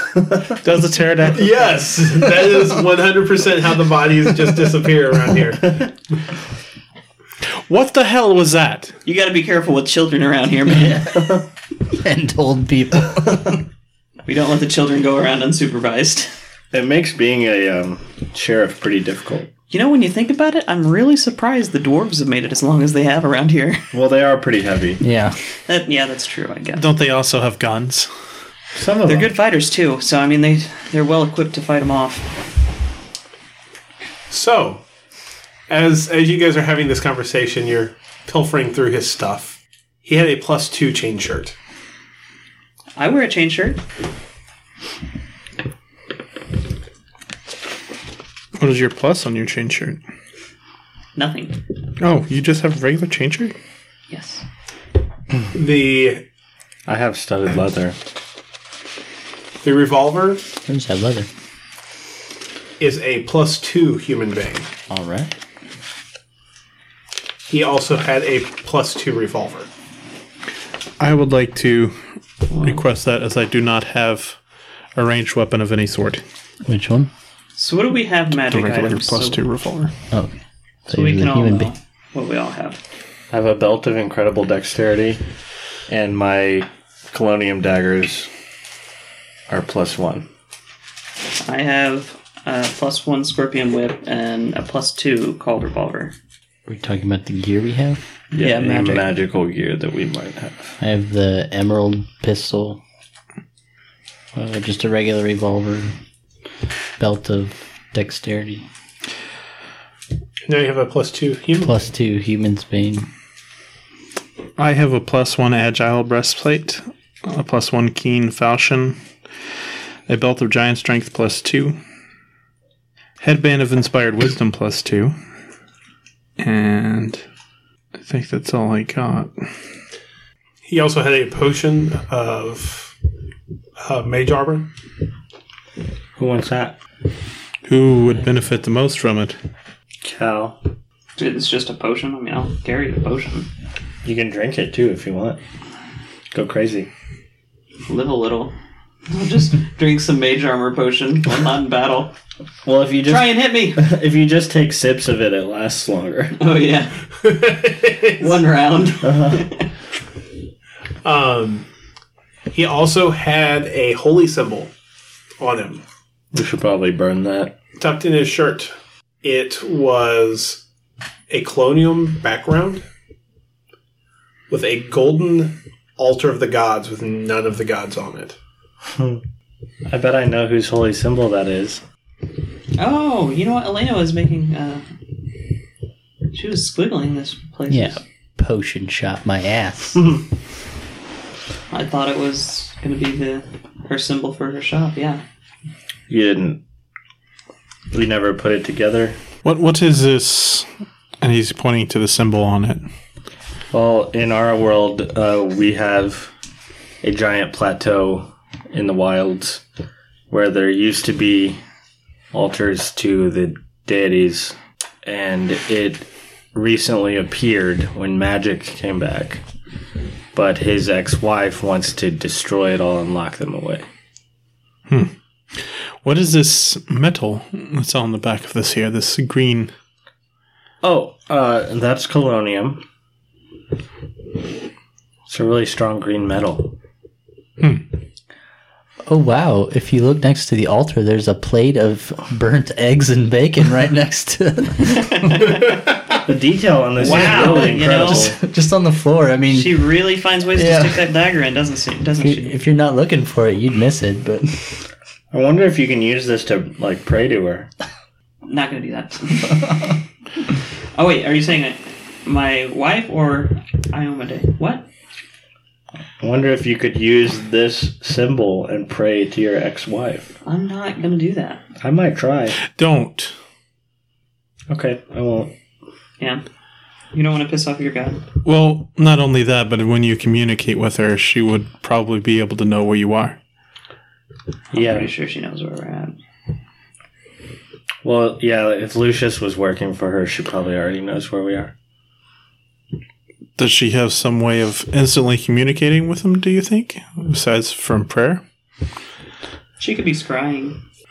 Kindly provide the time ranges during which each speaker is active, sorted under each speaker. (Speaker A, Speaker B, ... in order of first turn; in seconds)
Speaker A: 0.6-1.8, 7.7-8.9, 26.8-28.1, 48.6-50.0, 52.0-53.5, 71.0-72.0, 72.5-74.4, 75.0-76.2, 78.4-79.9, 114.6-119.0, 120.1-121.8, 123.2-125.1, 126.4-127.2, 128.0-129.3, 137.7-139.3, 199.4-200.7, 201.2-202.8, 224.9-229.7, 272.6-273.3, 278.4-283.4, 293.6-298.4
Speaker B: 1.3-5.9, 34.3-34.8, 35.7-41.5, 55.5-56.2, 59.6-60.4, 62.8-64.7, 67.5-69.7, 110.5-111.8, 130.7-132.9, 133.8-134.7, 157.2-158.4, 161.0-161.7, 162.5-164.7, 165.4-165.8, 167.8-170.6, 171.3-172.8, 174.5-178.4
Speaker C: 9.0-11.1, 14.2-16.3, 19.7-23.9, 25.7-26.9, 29.1-32.3, 43.0-43.8, 51.1-51.6, 54.1-54.4, 77.6-79.4, 80.9-82.8, 91.4-96.1, 98.4-99.1, 141.2-143.5, 147.9-148.5, 149.1-152.1, 153.1-153.8, 156.4-157.0, 158.2-159.7, 182.8-184.8, 186.3-188.0, 191.7-195.2, 245.2-245.5, 247.0-248.3, 249.5-252.5, 258.4-260.0, 260.9-264.9, 270.4-271.6, 277.1-278.2, 284.7-286.2, 299.8-300.8
Speaker D: 10.9-13.6, 25.0-25.4, 60.7-61.3, 64.9-65.3, 76.7-77.1, 80.1-80.3, 80.9-81.7, 96.7-98.0, 100.8-102.8, 104.3-105.9, 107.0-108.7, 111.6-113.1, 187.7-190.0, 239.1-245.4, 247.1-250.0, 250.5-251.1, 252.2-254.8
Speaker E: 11.0-11.4, 16.7-19.5, 23.9-25.0, 28.7-29.3, 56.9-58.0, 83.3-85.2, 85.9-88.3, 89.5-90.3, 98.3-100.8, 136.2-136.8, 140.0-140.6, 144.0-145.4, 146.3-146.9, 152.6-156.4, 159.0-159.5, 166.3-167.6, 178.8-179.2, 179.9-181.8, 196.1-196.6, 197.9-199.2, 203.7-206.3, 207.0-209.6, 210.3-211.6, 212.3-219.4, 220.3-223.8, 230.8-232.8, 235.3-236.7, 246.1-248.4, 255.3-257.7, 266.2-270.3, 271.8-272.6, 274.7-275.5, 284.7-285.1, 288.0-291.7